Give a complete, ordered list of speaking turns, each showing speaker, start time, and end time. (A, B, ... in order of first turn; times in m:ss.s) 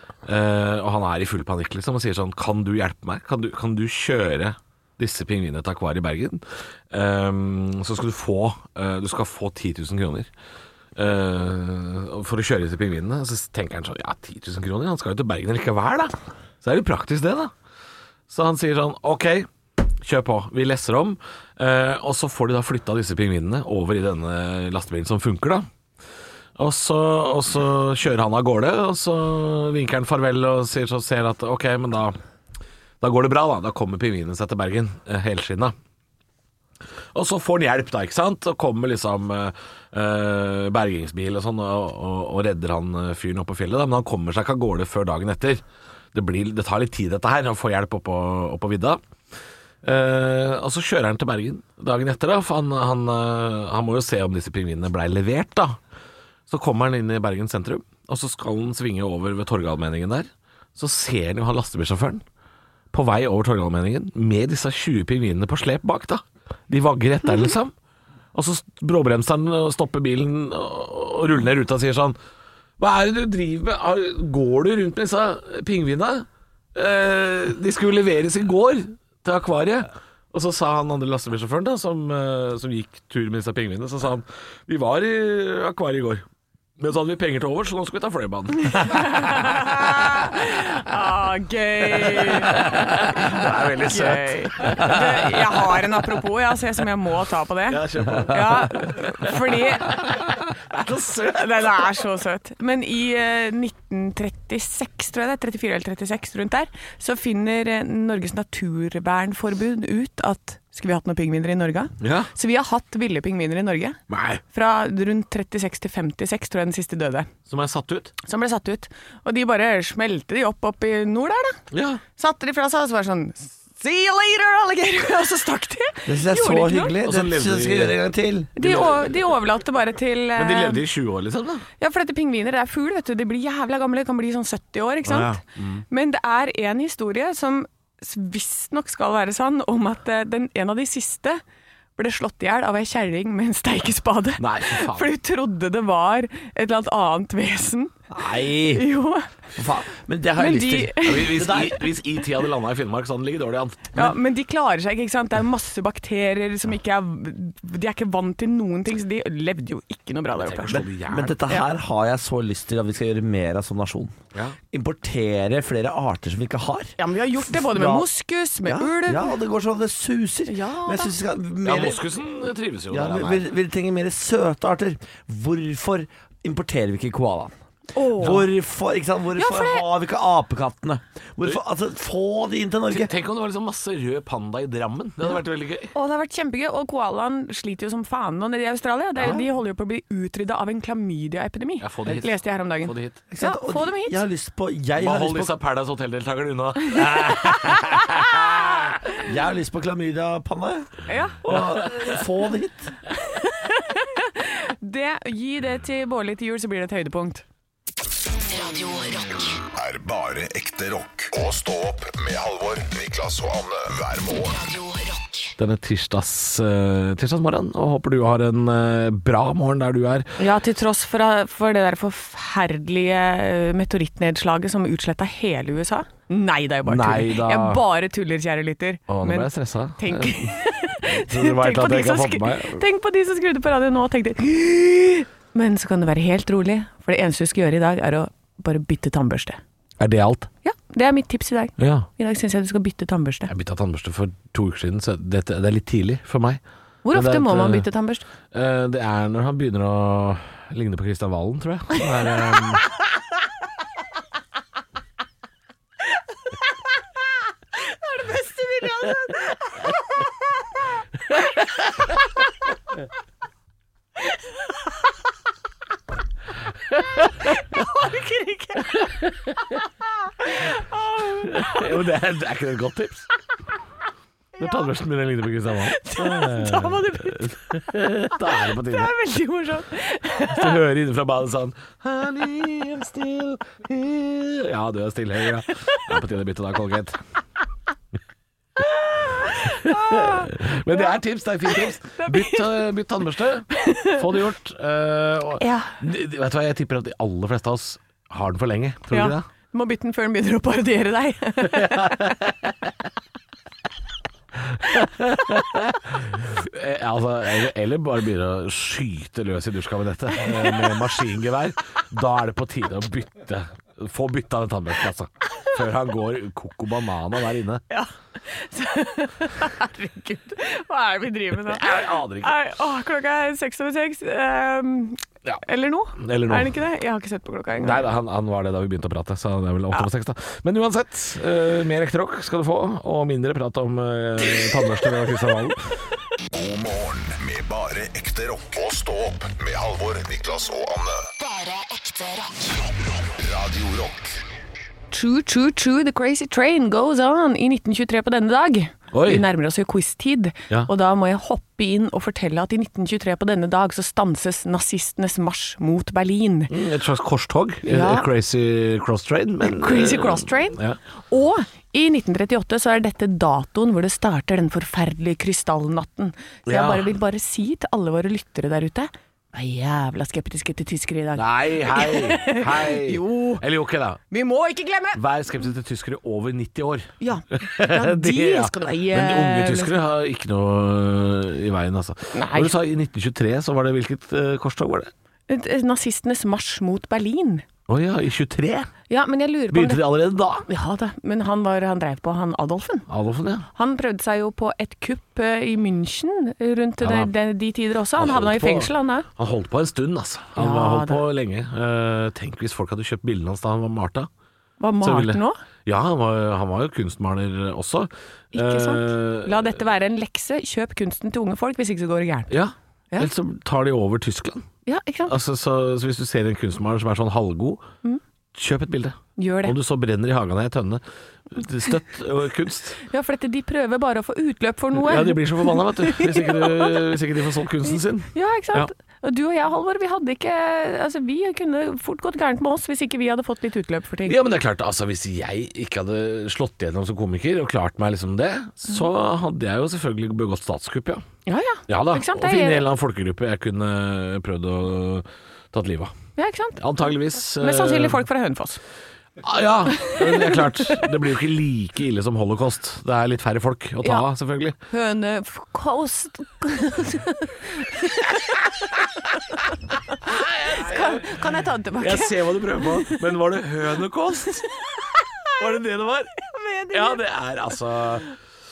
0:00.2-0:10.3 A
0:11.0-0:17.5 A
0:18.3-0:19.5 A
0:20.0-0:25.7 A
0:26.6-0:32.2 A
0:33.0-0:35.7 A
0:37.1-0:45.6 A
0:46.1-0:49.0 A
0:49.8-0:55.8 A
0:56.5-1:02.2 A
1:02.9-1:07.7 A
1:08.3-1:12.2 A
1:12.8-1:26.2 A
1:26.8-1:29.4 A
1:28.6-1:40.0 B
1:31.9-1:35.8 A
1:37.7-1:41.8 A
1:41.3-1:54.0 B
1:52.0-1:52.3 A
1:54.1-1:54.4 A
1:54.5-1:57.3 B
1:57.5-1:58.1 A
1:58.2-2:01.6 B
2:01.7-2:02.0 A
2:02.2-2:07.0 B
2:06.0-2:08.5 C
2:07.0-2:08.0 A
2:08.6-2:10.8 B
2:08.6-2:09.1 A
2:10.4-2:11.6 A
2:11.8-2:15.4 B
2:15.2-2:15.8 A
2:15.9-2:21.4 B
2:22.0-2:28.0 B
2:24.4-2:25.1 A
2:28.2-2:28.8 A
2:28.2-2:28.8 C
2:28.7-2:29.3 B
2:29.6-2:31.8 C
2:30.4-2:31.4 B
2:31.0-2:34.0 A
2:33.9-2:40.8 B
2:40.4-2:41.4 A
2:40.7-2:44.2 C
2:44.7-2:48.1 C
2:47.0-2:49.3 B
2:48.6-2:52.0 C
2:50.5-2:51.1 B
2:51.6-2:53.4 A
2:52.9-2:57.5 C
2:57.9-2:58.5 B
2:58.2-3:03.1 C
2:59.4-2:59.8 B
3:02.9-3:05.9 A
3:05.9-3:14.2 B
3:11.8-3:13.2 A
3:13.3-3:15.5 C
3:15.0-3:17.2 A
3:16.9-3:18.3 C
3:17.4-3:18.4 B
3:19.2-3:22.9 C
3:21.0-3:21.4 B
3:21.5-3:22.1 A
3:23.1-3:27.4 B
3:28.4-3:29.6 D
3:29.7-3:34.8 E
3:34.5-3:35.5 D
3:35.6-3:40.4 A
3:40.4-3:59.6 B
3:46.8-3:47.8 A
3:49.1-3:50.6 A
3:51.1-3:52.8 A
4:00.0-4:00.5 A
4:00.6-4:03.5 B
4:01.8-4:02.1 A
4:03.5-4:07.9 A
4:07.0-4:08.2 B
4:08.5-4:12.9 A
4:17.9-4:19.8 B
4:26.9-4:27.6 A
4:27.7-4:29.1 B
4:28.9-4:29.8 A
4:30.4-4:31.9 B
4:31.4-4:33.3 A
4:34.6-4:34.9 B
4:34.6-4:39.1 A
4:35.9-4:37.7 B
4:38.3-4:40.8 B
4:40.5-4:47.2 A
4:49.0-4:51.1 B
4:49.6-4:59.4 A
4:51.7-4:52.7 B
4:53.7-4:54.2 B
4:55.6-4:55.9 B
4:59.1-5:02.3 B
5:01.7-5:02.4 A
5:04.7-5:17.8 A
5:17.9-5:28.1 B
5:21.6-5:22.5 A
5:26.2-5:26.8 A
5:27.8-5:35.9 A
5:36.5-5:41.3 E
5:41.4-5:42.7 D
5:43.0-5:44.3 E
5:45.1-5:56.7 B
5:49.1-5:49.4 A
5:56.7-6:01.0 A
5:57.8-5:58.3 B
5:59.6-6:13.6 B
6:06.7-6:07.1 A
6:11.4-6:14.2 A
6:14.3-6:15.2 B
6:15.1-6:25.1 A
6:17.2-6:19.9 B
6:22.3-6:22.7 B
6:25.5-6:27.6 B
6:27.9-6:28.9 A
6:29.1-6:33.0 B
6:29.7-6:30.6 A
6:33.1-6:33.7 A
6:33.7-6:39.3 B
6:37.0-6:37.3 A
6:38.2-6:44.3 A
6:40.6-6:41.2 B
6:44.8-6:45.6 B
6:45.0-6:49.7 A
6:48.5-6:52.5 B
6:52.5-6:54.7 A
6:54.8-6:55.3 B
6:55.2-6:57.8 A
6:58.5-7:03.0 A
6:59.4-6:59.7 B
7:03.1-7:06.9 B
7:05.0-7:08.9 A
7:07.9-7:14.4 B
7:14.2-7:21.2 A
7:21.4-7:22.8 B
7:21.9-7:26.1 A
7:26.4-7:26.8 B
7:26.8-7:28.2 A
7:27.6-7:28.8 B
7:29.4-7:34.8 A
7:30.0-7:30.3 B
7:34.9-7:39.7 B
7:40.2-7:41.4 A
7:40.7-7:43.2 B
7:42.0-7:44.7 A
7:44.7-7:45.6 B
7:45.6-7:46.3 A
7:46.4-7:47.2 B
7:46.9-7:48.3 A